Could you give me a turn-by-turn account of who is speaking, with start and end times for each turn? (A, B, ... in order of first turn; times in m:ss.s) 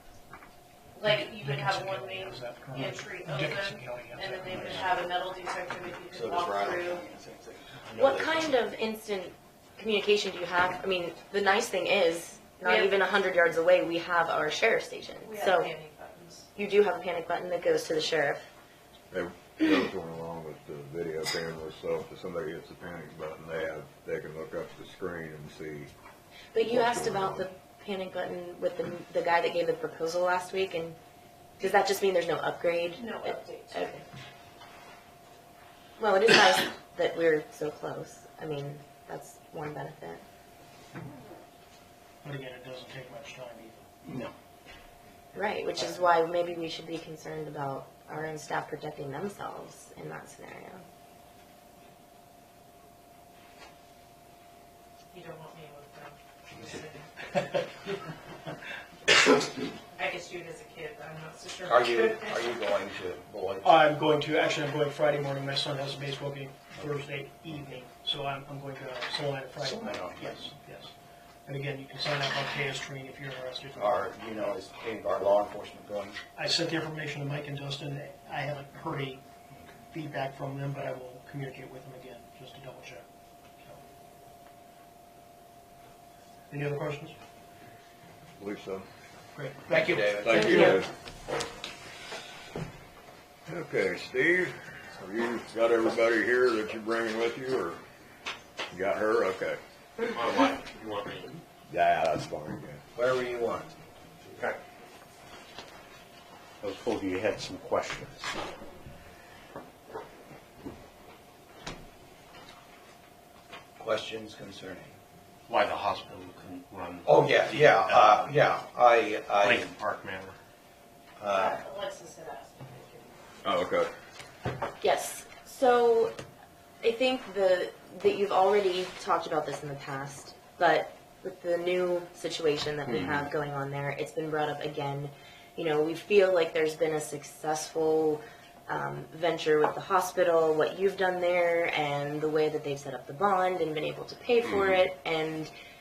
0:00.9-0:07.0 A
0:01.3-0:05.0 B
0:06.1-0:08.5 C
0:08.0-0:15.7 D
0:12.6-0:12.9 A
0:15.2-0:16.5 A
0:16.5-0:18.4 D
0:19.1-0:25.9 E
0:26.5-0:31.0 D
0:26.6-0:27.4 E
0:31.6-0:34.0 D
0:33.0-0:34.0 A
0:36.0-0:40.2 D
0:42.2-0:43.9 B
0:44.0-0:44.3 C
0:45.3-0:50.8 D
0:55.1-0:57.6 A
1:00.0-1:02.4 A
1:01.6-1:03.7 C
1:03.6-1:10.9 B
1:09.6-1:10.5 C
1:11.4-1:14.5 B
1:13.8-1:16.2 C
1:16.4-1:19.2 B
1:19.9-1:23.0 B
1:26.5-1:27.2 B
1:28.4-1:28.8 E
1:29.3-1:30.0 B
1:29.7-1:30.8 C
1:30.2-1:30.9 E
1:33.5-1:37.8 E
1:38.7-1:39.6 E
1:40.1-1:41.4 F
1:41.7-1:42.8 E
1:42.9-1:43.7 C
1:46.6-1:48.3 F
1:53.8-1:54.9 C
1:55.5-1:57.1 F
1:57.0-1:59.7 C
1:59.4-2:00.4 F
2:01.2-2:01.6 C
2:01.3-2:03.2 A
2:03.4-2:03.9 E
2:04.8-2:06.1 D
2:06.8-2:25.5 D